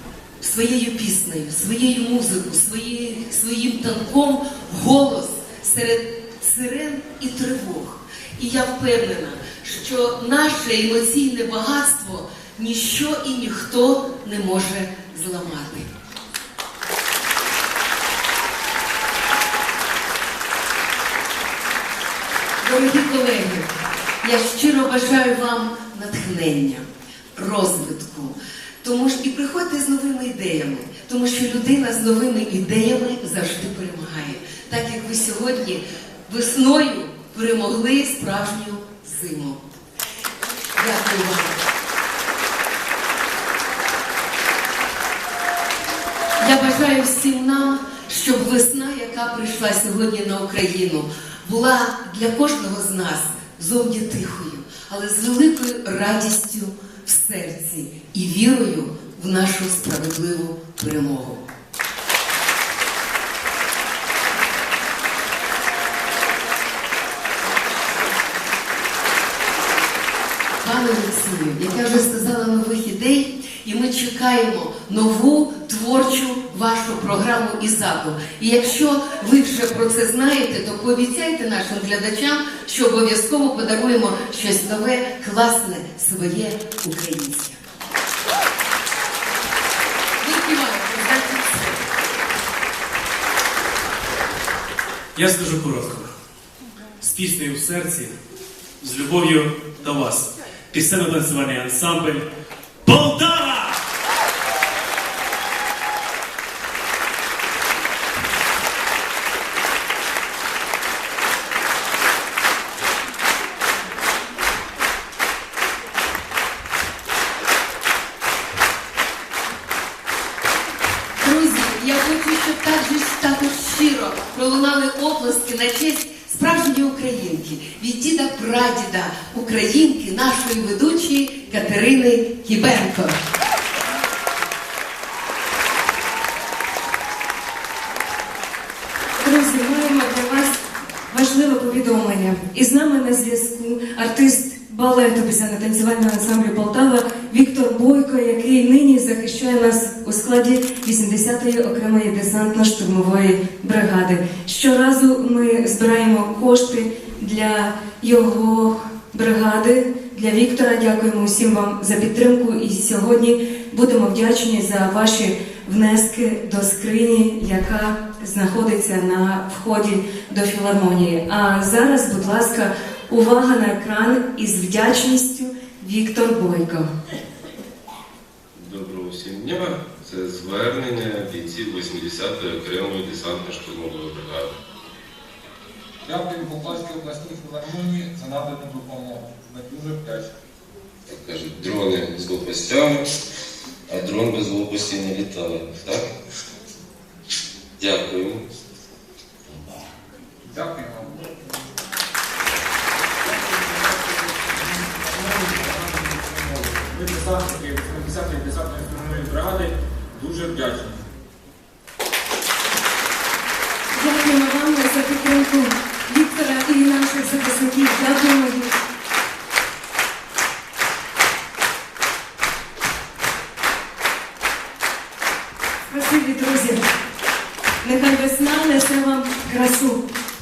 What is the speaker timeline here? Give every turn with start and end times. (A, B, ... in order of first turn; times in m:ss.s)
0:00.4-0:15.9 A
0:22.6-0:23.7 A
0:24.2-0:39.6 A
0:40.8-0:41.6 A
0:46.4-1:01.5 A
1:10.6-1:27.6 A
1:30.2-1:31.9 A
1:35.2-1:36.1 B
1:37.0-1:38.2 B
1:38.8-1:42.3 B
1:42.8-1:43.8 B
2:01.2-2:13.2 A
2:19.2-2:20.6 C
2:21.1-2:56.9 C
2:58.6-3:04.5 D
3:06.0-3:10.3 E
3:11.1-3:13.1 D
3:13.9-3:16.1 D
3:17.8-3:18.4 D
3:20.4-3:21.3 E
3:23.2-3:31.1 E
3:33.9-3:38.7 C
3:45.9-3:46.8 C
3:47.8-3:50.0 C